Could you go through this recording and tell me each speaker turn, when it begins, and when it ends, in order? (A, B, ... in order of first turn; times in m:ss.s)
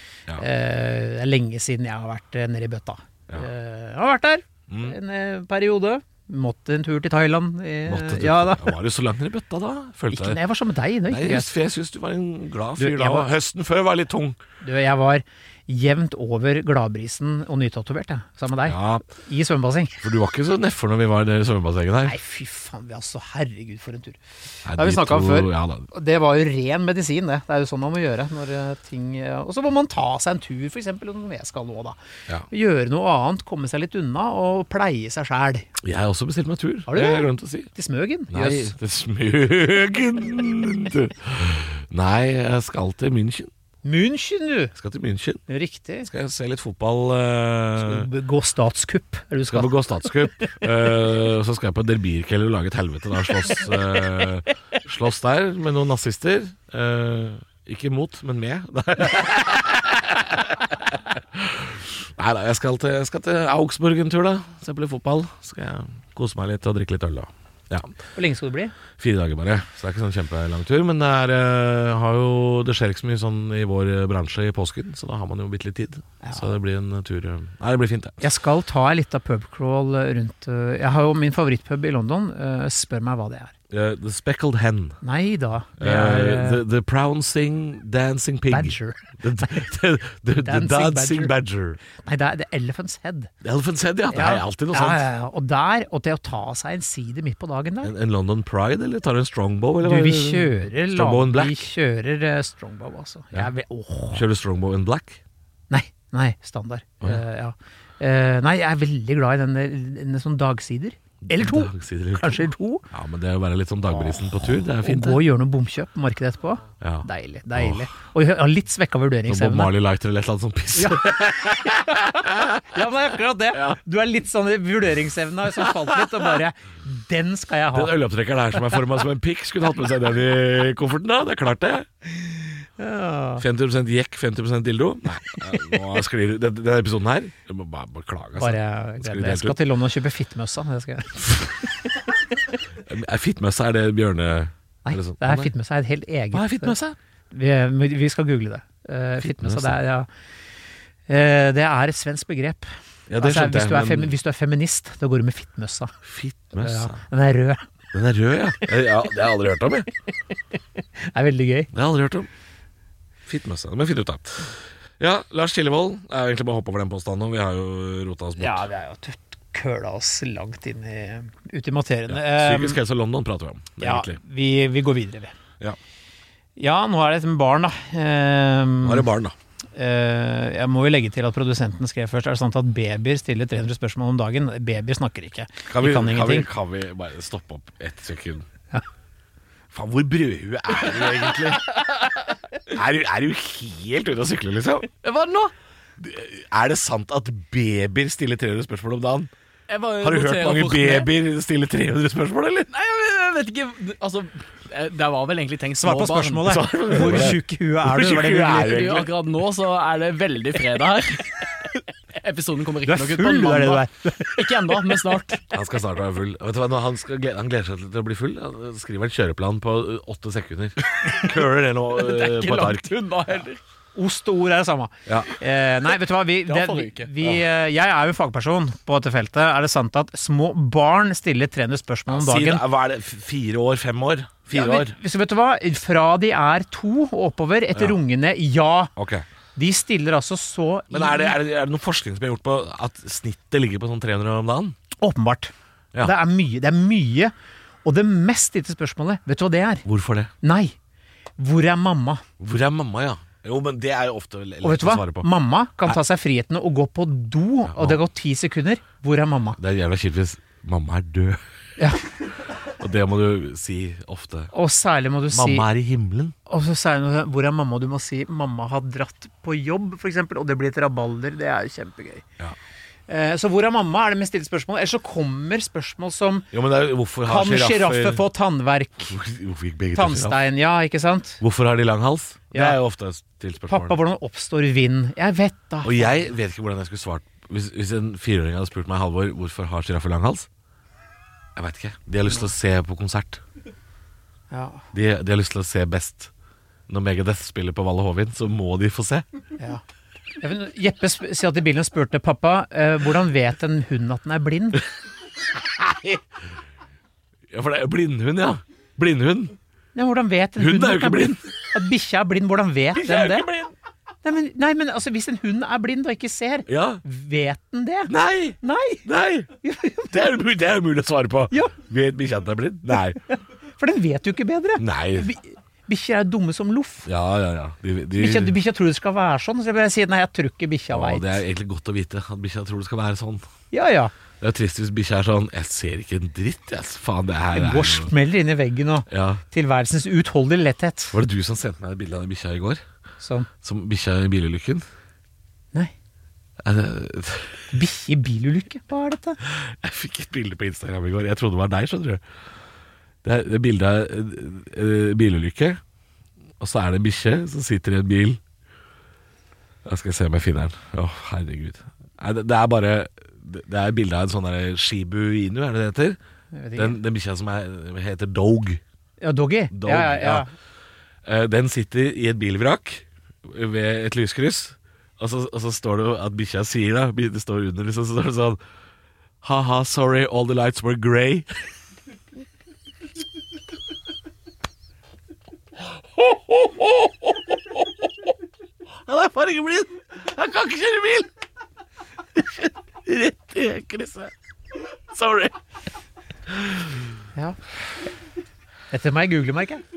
0:00.4-0:08.7 A
0:04.7-0:05.0 B
0:07.8-0:10.4 B
0:10.1-0:11.5 A
0:11.1-0:14.4 B
0:12.8-0:13.3 A
0:14.6-0:20.0 A
0:18.6-0:19.0 B
0:20.0-0:22.2 B
0:22.0-0:32.0 A
0:24.6-0:25.9 B
0:32.5-0:35.7 A
0:35.8-0:37.7 B
0:36.9-0:38.8 A
0:38.3-0:43.5 B
0:43.8-0:44.7 A
0:44.7-0:45.4 B
0:45.5-0:46.1 A
0:46.0-0:48.1 B
0:47.8-0:50.6 A
0:49.5-1:07.9 B
1:08.1-1:08.7 A
1:09.0-1:18.2 B
1:16.2-1:16.5 A
1:18.2-1:23.5 A
1:23.7-1:25.0 B
1:25.0-1:26.6 A
1:25.8-1:31.8 B
1:28.5-1:29.7 A
1:30.4-1:31.3 A
1:31.9-1:33.3 A
1:33.4-1:35.1 B
1:34.1-1:37.9 A
1:37.8-1:41.7 B
1:39.8-1:44.2 A
1:44.1-1:45.2 B
1:45.7-1:52.8 A
1:51.2-1:55.2 B
1:54.8-1:59.7 A
1:56.8-1:57.9 B
1:59.3-2:02.8 B
2:00.7-2:08.0 A
2:03.5-2:03.8 B
2:05.6-2:06.3 B
2:07.7-2:11.9 B
2:12.8-2:13.4 A
2:13.4-2:19.6 B
2:18.4-2:21.9 A
2:22.8-2:25.5 B
2:24.8-2:26.8 A
2:26.3-2:27.0 B
2:27.3-2:30.1 A
2:29.2-2:29.8 B
2:31.1-2:35.9 A
2:33.1-2:34.1 B
2:36.0-2:37.0 B
2:36.5-2:37.7 A
2:37.9-2:39.9 B
2:41.0-2:41.7 A
2:41.7-2:42.3 B
2:43.2-2:48.7 B
2:48.4-2:52.8 A
2:52.1-2:54.2 B
2:53.8-2:55.3 A
2:56.6-2:59.1 A
2:58.8-2:59.3 B
2:59.8-3:06.5 A
3:05.7-3:08.5 B
3:09.7-3:11.7 B
3:12.7-3:14.9 B
3:15.0-3:15.5 C
3:16.0-3:19.3 B
3:19.7-3:21.1 C
3:20.0-3:22.7 B
3:22.7-3:27.4 C
3:25.8-3:29.0 A
3:26.4-3:29.1 B
3:28.4-3:31.5 C
3:32.1-3:35.4 C
3:32.8-3:34.9 A
3:35.5-3:43.0 B
3:41.9-3:43.6 C
3:43.9-3:52.6 A
3:45.0-3:45.3 B
3:46.5-3:47.1 C
3:52.1-3:55.0 B
3:54.5-3:58.9 A
3:59.0-3:59.2 B
3:59.6-4:01.4 A
4:00.9-4:04.8 B
4:05.0-4:07.3 A
4:07.8-4:09.8 A
4:09.8-4:10.3 B
4:10.4-4:10.8 A
4:11.4-4:12.2 A
4:12.4-4:15.3 B
4:14.6-4:19.6 A
4:17.7-4:18.0 B
4:19.6-4:21.4 B
4:21.8-4:22.1 A
4:22.8-4:24.5 B
4:24.5-4:25.7 A
4:25.3-4:26.3 B
4:26.4-4:32.2 A
4:33.1-4:36.5 A
4:36.5-4:38.2 B
4:37.2-4:39.1 A
4:39.0-4:40.4 B
4:39.9-4:41.4 A
4:41.4-4:44.0 B
4:42.5-4:42.8 A
4:43.7-4:46.2 A
4:45.8-4:50.5 B
4:51.6-4:53.4 B
4:54.5-4:54.8 A
4:54.9-4:56.3 B
4:56.9-4:59.2 B
5:00.4-5:04.8 A
5:05.6-5:06.2 B
5:07.5-5:09.6 B
5:09.9-5:13.5 A
5:10.6-5:11.7 B
5:12.9-5:13.7 B
5:14.2-5:19.0 A
5:16.7-5:17.0 B
5:18.1-5:19.5 B
5:19.6-5:20.1 A
5:20.1-5:23.2 B
5:23.3-5:27.1 A
5:24.8-5:25.3 B
5:27.0-5:28.6 B
5:28.2-5:31.4 A
5:30.9-5:33.4 B
5:33.7-5:34.1 A
5:34.4-5:38.1 B
5:37.5-5:41.2 A
5:39.1-5:39.4 B
5:41.1-5:42.8 B
5:43.2-5:43.5 A
5:43.6-5:44.8 B
5:46.6-5:47.6 B
5:47.7-5:49.4 A
5:49.4-5:52.2 B
5:53.2-5:55.8 B
5:56.6-5:58.4 B
5:59.8-6:06.2 B
6:06.5-6:07.0 A
6:06.8-6:08.8 B
6:09.2-6:10.5 A
6:09.7-6:10.4 B
6:11.2-6:18.6 B
6:19.4-6:21.6 B
6:26.0-6:28.1 B
6:29.0-6:31.3 B
6:32.3-6:34.3 B
6:35.1-6:35.5 B
6:36.5-6:37.1 B
6:38.9-6:39.8 A